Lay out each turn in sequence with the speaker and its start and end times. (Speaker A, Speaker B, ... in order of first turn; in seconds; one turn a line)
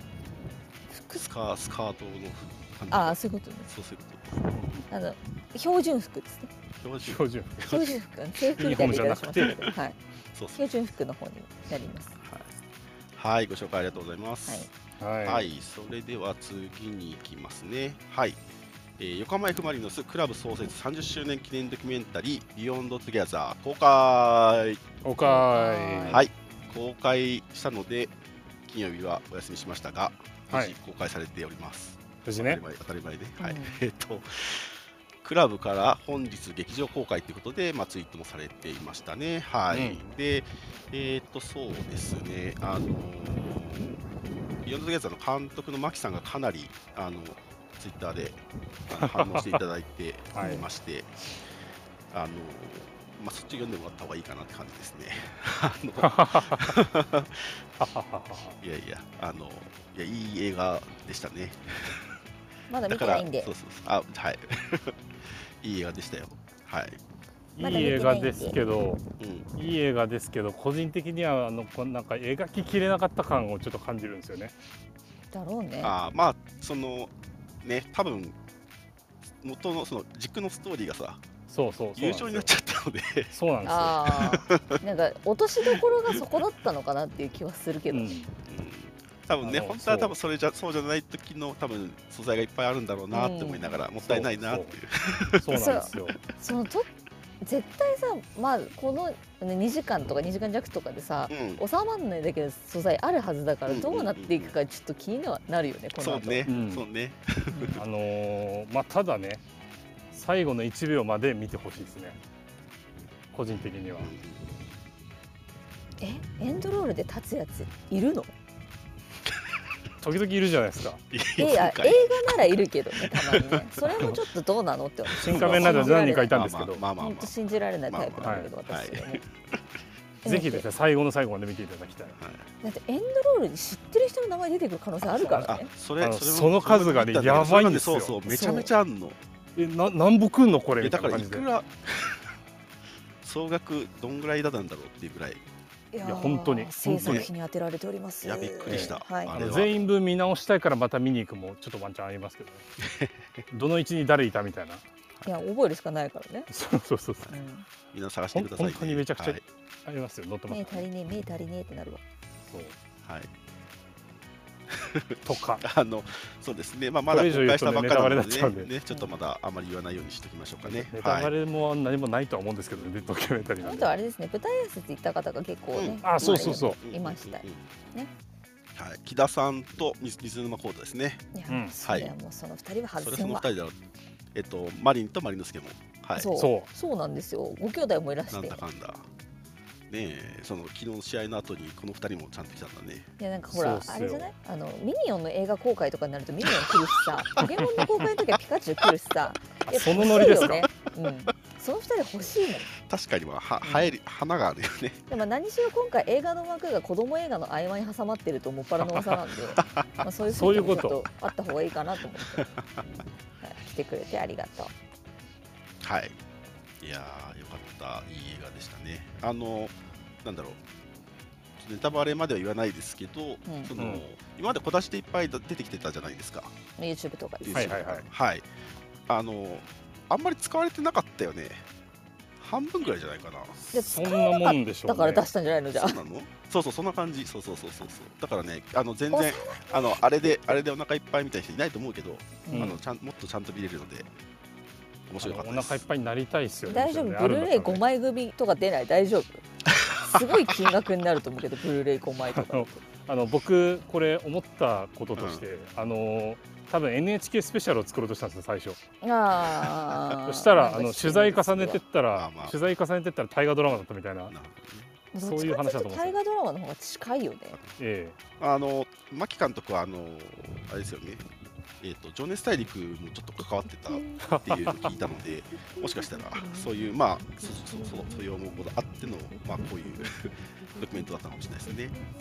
Speaker A: 0.9-1.2
Speaker B: 1.1-4.4
Speaker A: 2.9-3.7
Speaker C: 4.5-4.9
Speaker A: 4.9-6.5
Speaker B: 6.8-8.0
Speaker C: 7.0-7.7
Speaker A: 7.6-9.9
Speaker C: 8.6-9.6
Speaker B: 9.4-9.7
Speaker B: 10.3-10.6
Speaker A: 10.6-12.2
Speaker B: 12.2-12.5
Speaker B: 13.2-14.7
Speaker C: 15.0-15.5
Speaker B: 15.2-18.4
Speaker B: 19.0-24.8
Speaker C: 25.0-26.2
Speaker A: 25.2-26.2
Speaker B: 26.1-28.1
Speaker B: 28.6-44.0
Speaker C: 30.5-30.8
Speaker C: 32.2-32.6
Speaker A: 33.4-33.8
Speaker C: 39.7-40.0
Speaker B: 44.6-51.3
Speaker C: 49.0-49.6
Speaker C: 50.3-50.6
Speaker A: 50.4-50.7
Speaker B: 52.1-57.6
Speaker C: 56.0-56.8
Speaker C: 57.8-58.6
Speaker B: 58.6-62.2
Speaker A: 62.7-63.5
Speaker B: 62.9-67.0
Speaker C: 67.5-69.0
Speaker A: 67.6-68.5
Speaker B: 69.2-69.5
Speaker C: 69.5-74.5
Speaker A: 75.3-75.9
Speaker B: 75.8-78.3
Speaker B: 79.4-81.2
Speaker C: 81.5-82.5
Speaker B: 82.0-83.3
Speaker C: 83.3-84.1
Speaker A: 83.6-88.1
Speaker B: 84.1-84.8
Speaker B: 85.7-86.2
Speaker C: 87.9-88.3
Speaker B: 88.4-95.8
Speaker C: 89.4-90.1
Speaker A: 93.1-93.8
Speaker C: 94.0-94.8
Speaker C: 95.3-96.2
Speaker A: 95.5-96.9
Speaker A: 97.4-106.5
Speaker B: 101.3-101.6
Speaker B: 103.7-104.5
Speaker B: 106.0-107.8
Speaker C: 106.5-106.8
Speaker A: 107.5-107.8
Speaker C: 107.8-109.4
Speaker C: 110.1-112.2
Speaker C: 113.3-114.1
Speaker B: 114.0-114.4
Speaker A: 116.0-118.3
Speaker B: 119.2-119.5
Speaker C: 120.0-121.0
Speaker B: 121.1-124.1
Speaker A: 121.4-126.5
Speaker B: 125.2-127.3
Speaker C: 125.2-126.8
Speaker A: 127.0-129.2
Speaker B: 127.9-129.6
Speaker C: 128.2-128.5
Speaker A: 130.2-130.6
Speaker C: 130.2-132.2
Speaker B: 132.2-132.5
Speaker A: 132.6-135.7
Speaker B: 135.0-139.2
Speaker C: 135.3-138.2
Speaker A: 138.3-138.7
Speaker C: 139.6-141.4
Speaker B: 140.8-142.3
Speaker B: 143.2-145.4
Speaker A: 145.9-149.3
Speaker C: 146.0-147.3
Speaker B: 147.0-147.3
Speaker B: 148.2-149.8
Speaker C: 148.7-152.6
Speaker B: 152.8-153.4
Speaker C: 153.5-154.8
Speaker A: 155.2-156.5
Speaker C: 156.5-157.4
Speaker A: 157.3-157.6
Speaker B: 157.9-159.4
Speaker C: 158.3-160.8
Speaker A: 160.5-162.0
Speaker C: 162.5-162.8
Speaker B: 163.0-163.3
Speaker B: 164.7-171.3
Speaker C: 165.2-165.6
Speaker C: 167.1-168.7
Speaker C: 170.7-173.9
Speaker A: 173.6-177.4
Speaker B: 175.8-177.6
Speaker C: 176.0-176.8
Speaker B: 178.7-181.2
Speaker A: 181.3-183.5
Speaker B: 181.8-182.1
Speaker B: 183.0-183.8
Speaker B: 184.3-186.3
Speaker A: 186.2-188.6
Speaker C: 186.4-186.7
Speaker B: 188.3-189.1
Speaker B: 189.9-193.1
Speaker A: 193.2-202.7
Speaker C: 193.5-194.3
Speaker B: 196.4-197.9
Speaker C: 197.4-197.9
Speaker C: 199.7-200.7
Speaker B: 200.1-200.9
Speaker B: 202.8-205.1
Speaker A: 203.6-203.9
Speaker A: 205.1-212.5
Speaker C: 208.8-209.1
Speaker B: 209.5-210.0
Speaker C: 210.3-211.0
Speaker B: 212.2-212.8
Speaker A: 213.4-214.7
Speaker B: 215.8-216.2
Speaker B: 216.8-220.6
Speaker B: 221.6-226.5
Speaker A: 223.4-223.7
Speaker C: 223.8-224.0
Speaker A: 226.8-227.8
Speaker B: 227.4-228.5
Speaker C: 227.5-228.1
Speaker B: 229.1-231.6
Speaker B: 232.4-233.6
Speaker C: 233.6-235.2
Speaker A: 233.7-236.0
Speaker B: 235.7-244.1
Speaker A: 239.1-240.6
Speaker A: 242.4-242.8
Speaker C: 242.5-242.8
Speaker B: 245.1-245.8
Speaker C: 245.2-247.8
Speaker A: 246.7-249.4
Speaker B: 249.7-250.6
Speaker A: 249.9-252.8
Speaker C: 252.3-258.8
Speaker B: 255.2-255.4
Speaker A: 259.0-261.8
Speaker C: 260.1-264.3
Speaker B: 262.1-262.6
Speaker B: 264.3-264.9
Speaker A: 265.1-267.6
Speaker C: 265.1-266.2
Speaker C: 267.8-268.1
Speaker B: 268.4-271.2
Speaker B: 271.8-282.0
Speaker C: 274.2-274.9